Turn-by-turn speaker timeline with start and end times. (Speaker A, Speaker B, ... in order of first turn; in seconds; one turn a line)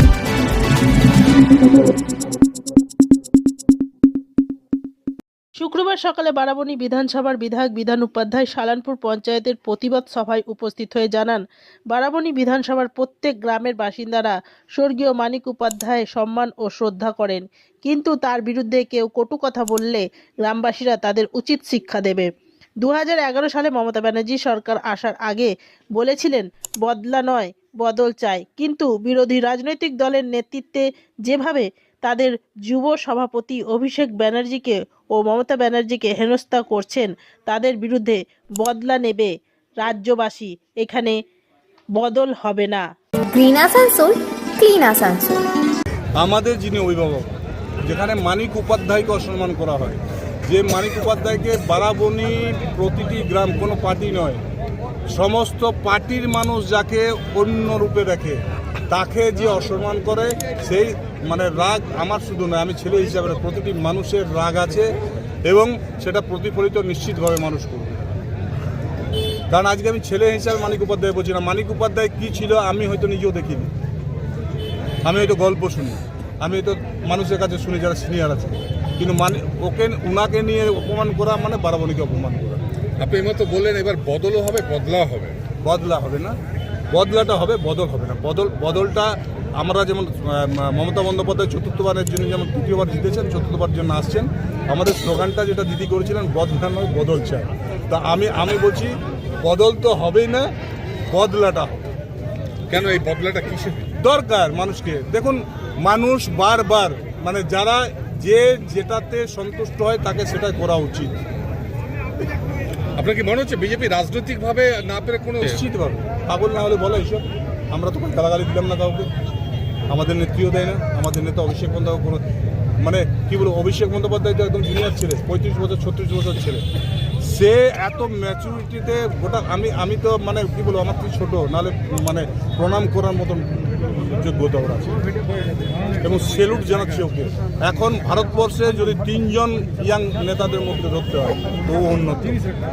Speaker A: 5.6-22.3
Speaker A: 22.8-41.2
Speaker A: 42.0-42.8
Speaker B: 43.3-45.5
Speaker C: 46.2-47.3
Speaker C: 47.8-54.4
Speaker C: 55.1-64.9
Speaker C: 65.5-68.0
Speaker C: 69.5-73.7
Speaker C: 75.0-82.6
Speaker D: 83.0-85.4
Speaker C: 85.6-86.3
Speaker C: 86.9-100.5
Speaker C: 101.1-101.7
Speaker D: 102.7-103.9
Speaker C: 104.0-111.1
Speaker D: 113.0-115.6
Speaker C: 115.4-119.1
Speaker C: 119.9-122.2
Speaker C: 122.8-126.6
Speaker C: 127.2-135.0
Speaker C: 136.0-142.4